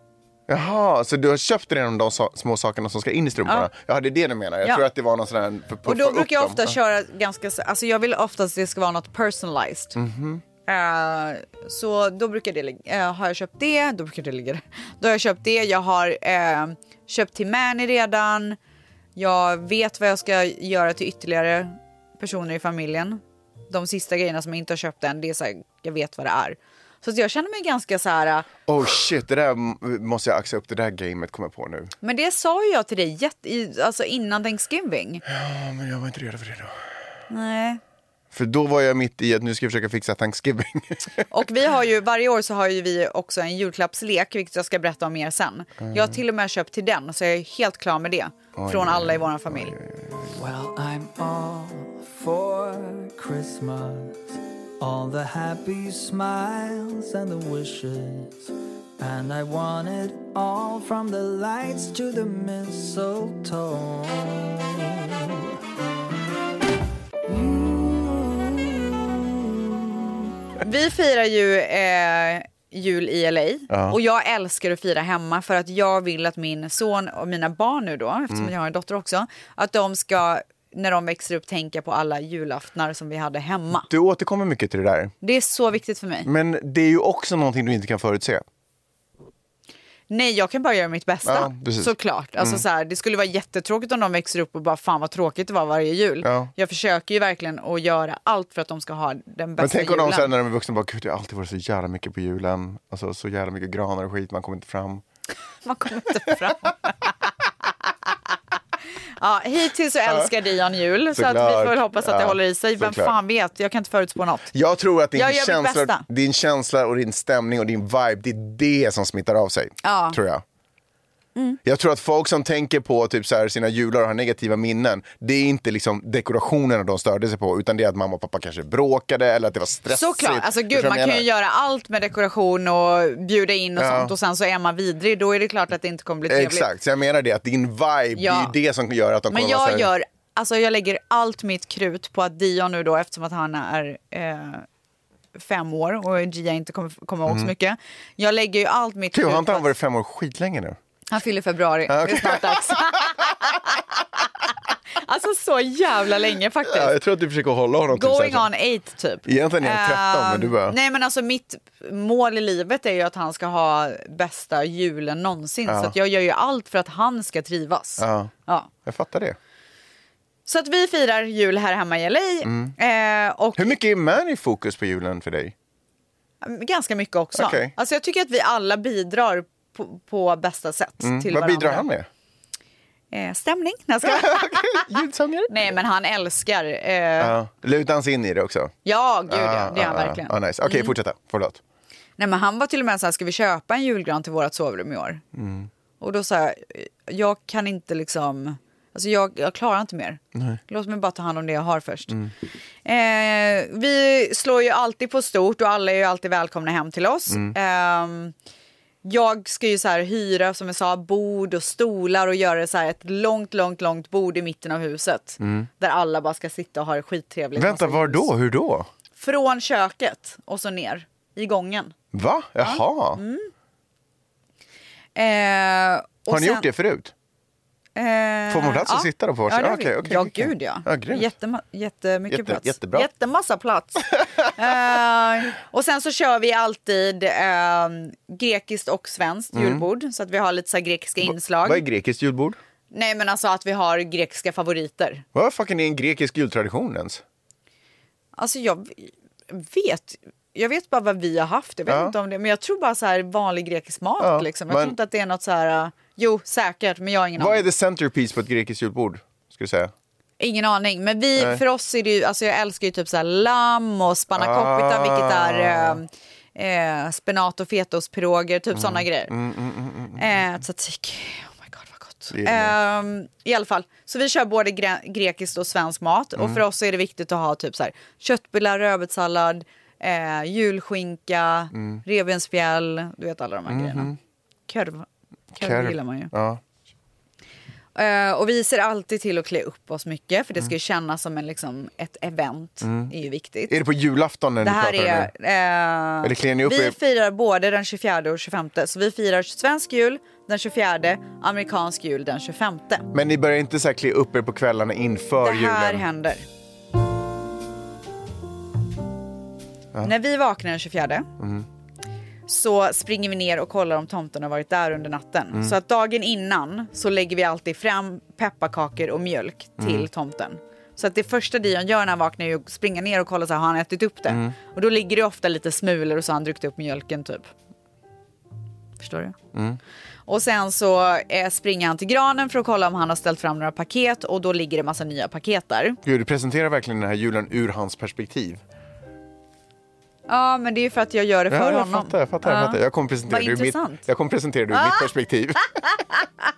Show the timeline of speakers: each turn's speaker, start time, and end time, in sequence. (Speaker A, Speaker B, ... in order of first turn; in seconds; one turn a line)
Speaker A: 0.5-6.8
Speaker B: 5.8-10.0
Speaker A: 10.0-10.4
Speaker B: 10.7-18.6
Speaker B: 19.2-28.5
Speaker A: 28.7-31.9
Speaker B: 32.0-35.2
Speaker A: 35.3-36.8
Speaker B: 37.3-37.8
Speaker A: 38.3-41.3
Speaker B: 41.3-49.7
Speaker A: 45.8-46.2
Speaker A: 48.6-50.4
Speaker C: 50.4-65.5
Speaker C: 67.3-70.1
Speaker B: 70.6-83.9
Speaker A: 73.7-74.0
Speaker A: 83.9-85.1
Speaker B: 85.2-86.3
Speaker A: 86.2-88.4
Speaker B: 90.1-100.3
Speaker A: 91.2-92.6
Speaker A: 96.2-96.5
Speaker A: 99.6-105.0
Speaker B: 105.7-106.9
Speaker B: 109.2-114.5
Speaker A: 110.0-110.3
Speaker A: 111.1-113.2
Speaker A: 114.5-120.4
Speaker B: 115.1-116.0
Speaker B: 119.8-120.2
Speaker A: 121.6-131.3
Speaker B: 129.9-136.7
Speaker A: 133.8-134.1
Speaker A: 136.3-139.9
Speaker B: 138.1-138.5
Speaker B: 139.3-144.7
Speaker B: 145.3-149.7
Speaker A: 147.3-147.5
Speaker A: 149.1-150.8
Speaker B: 151.1-157.0
Speaker A: 151.9-153.2
Speaker A: 156.7-158.5
Speaker B: 157.9-168.7
Speaker A: 159.2-160.8
Speaker A: 165.7-165.9
Speaker A: 168.0-168.3
Speaker A: 168.8-169.4
Speaker B: 170.5-173.8
Speaker A: 172.4-172.8
Speaker A: 173.6-175.5
Speaker B: 176.4-181.9
Speaker A: 177.4-177.7
Speaker A: 181.0-182.1
Speaker B: 183.1-185.0
Speaker A: 184.0-185.7
Speaker B: 185.5-187.3
Speaker A: 187.2-188.7
Speaker B: 188.8-190.9
Speaker A: 189.3-191.6
Speaker B: 192.2-195.2
Speaker A: 195.3-195.7
Speaker B: 196.0-202.2
Speaker A: 200.3-200.6
Speaker B: 202.8-208.3
Speaker A: 207.3-207.6
Speaker B: 209.0-218.3
Speaker A: 215.4-215.7
Speaker A: 217.6-218.9
Speaker B: 219.2-221.9
Speaker A: 222.1-223.2
Speaker B: 222.6-223.5
Speaker B: 225.2-226.7
Speaker A: 226.3-227.1
Speaker B: 228.0-241.8
Speaker A: 228.5-231.3
Speaker A: 232.3-233.1
Speaker A: 239.5-239.9
Speaker A: 241.2-242.6
Speaker B: 242.9-245.2
Speaker A: 245.3-247.2
Speaker B: 248.4-257.7
Speaker A: 251.9-252.2
Speaker A: 254.2-255.0
Speaker A: 257.4-259.9
Speaker B: 260.4-269.3
Speaker A: 261.4-261.6
Speaker A: 264.3-266.0
Speaker A: 268.7-270.3
Speaker B: 270.2-284.1
Speaker A: 272.3-272.8
Speaker A: 276.4-276.6
Speaker A: 281.7-282.0
Speaker A: 283.7-284.2
Speaker B: 284.7-286.3
Speaker A: 285.5-286.6
Speaker B: 287.9-293.8
Speaker A: 292.8-293.1
Speaker A: 293.7-295.3
Speaker B: 294.6-303.1
Speaker A: 296.2-297.0
Speaker A: 303.1-306.1
Speaker B: 305.4-306.5
Speaker B: 310.0-311.3
Speaker A: 311.4-311.7
Speaker B: 312.5-327.5
Speaker A: 319.8-320.1
Speaker A: 324.3-324.6
Speaker B: 329.0-329.4
Speaker A: 329.5-329.8
Speaker B: 330.3-336.0
Speaker A: 336.0-338.6
Speaker B: 340.3-344.1
Speaker A: 341.5-346.0
Speaker B: 344.7-345.1
Speaker B: 345.9-346.3